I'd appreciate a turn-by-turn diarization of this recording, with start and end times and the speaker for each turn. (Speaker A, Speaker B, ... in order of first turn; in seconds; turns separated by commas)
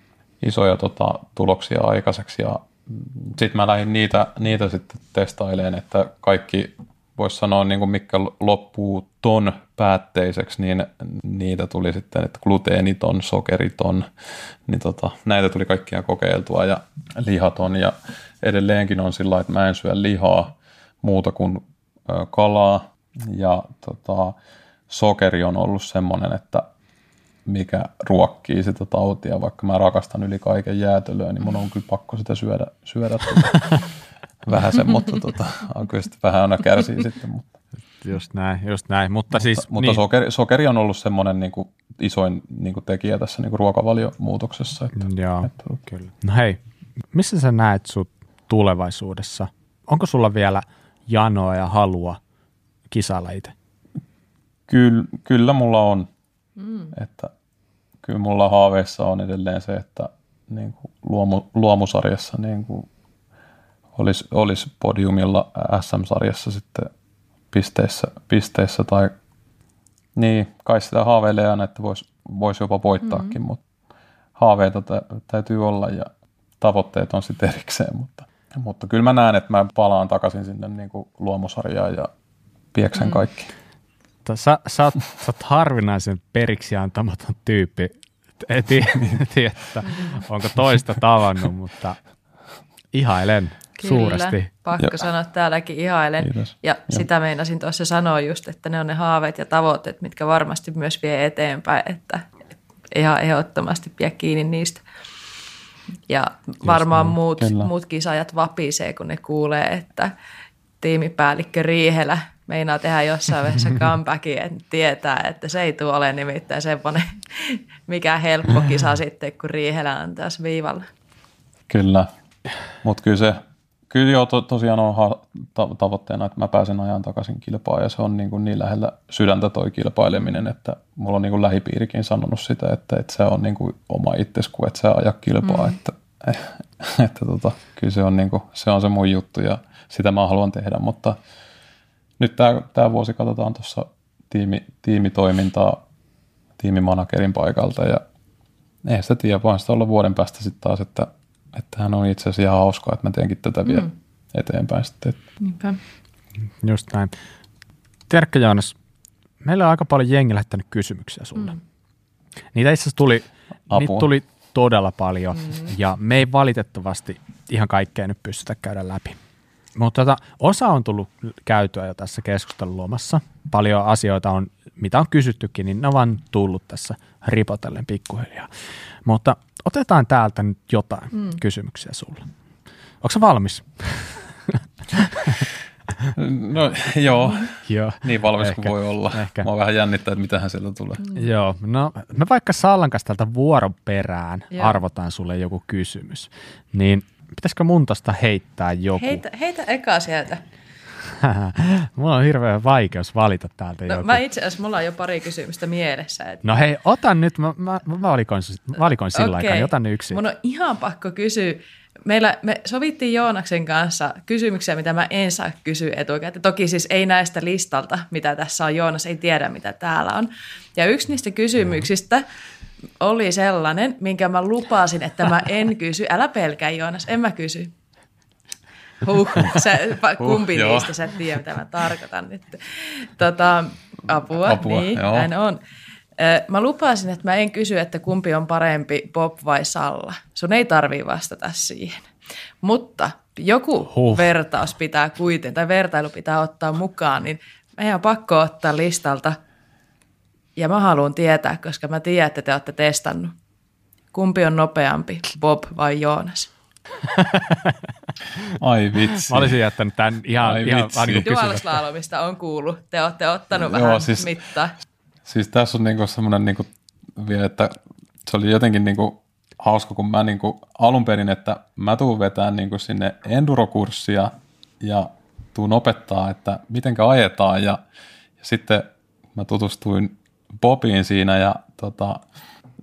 Speaker A: 0.4-14.1, Speaker A: 14.7-24.4, Speaker A: 24.9-26.6, Speaker A: 27.4-33.9, Speaker A: 34.4-37.5, Speaker B: 38.0-40.0, Speaker A: 39.3-45.8, Speaker B: 44.9-46.6, Speaker B: 47.1-52.2, Speaker B: 52.9-53.5, Speaker A: 54.7-56.1, Speaker C: 56.6-56.9, Speaker A: 56.9-57.3, Speaker A: 58.0-62.9, Speaker A: 64.0-66.9, Speaker A: 67.5-69.1, Speaker A: 70.2-73.6, Speaker A: 74.3-82.1, Speaker A: 82.7-83.5, Speaker C: 83.0-83.2, Speaker B: 84.2-92.0, Speaker B: 92.9-94.5, Speaker C: 93.8-102.2, Speaker A: 96.2-97.0, Speaker C: 102.9-104.8, Speaker C: 106.1-110.1, Speaker B: 106.7-107.1, Speaker A: 107.3-107.7, Speaker C: 110.8-120.9, Speaker A: 121.7-122.1, Speaker A: 122.8-141.2, Speaker C: 135.5-135.7, Speaker A: 142.2-145.8, Speaker A: 146.6-148.0, Speaker A: 148.8-155.2, Speaker C: 155.4-155.8, Speaker B: 156.6-157.1, Speaker B: 158.1-158.8, Speaker B: 159.4-161.6, Speaker B: 162.5-169.2, Speaker A: 163.7-164.1, Speaker B: 169.8-178.5, Speaker B: 179.0-182.3, Speaker B: 183.0-185.5, Speaker A: 186.1-191.0, Speaker B: 187.6-189.5, Speaker B: 191.1-199.2, Speaker C: 194.5-194.8, Speaker C: 199.0-200.4, Speaker B: 201.2-204.2, Speaker C: 203.9-206.4, Speaker B: 206.4-210.2, Speaker C: 209.1-222.2, Speaker C: 223.0-227.7, Speaker C: 229.0-235.6, Speaker A: 230.2-231.0, Speaker A: 234.3-235.3, Speaker C: 236.2-242.1, Speaker C: 242.6-249.4, Speaker B: 243.9-244.3, Speaker C: 250.6-253.3, Speaker C: 254.1-256.5, Speaker B: 257.1-257.8, Speaker A: 258.6-259.6, Speaker B: 259.3-261.8, Speaker A: 260.4-261.2, Speaker C: 261.2-264.7, Speaker A: 263.5-264.3, Speaker A: 265.2-277.8, Speaker A: 278.4-282.2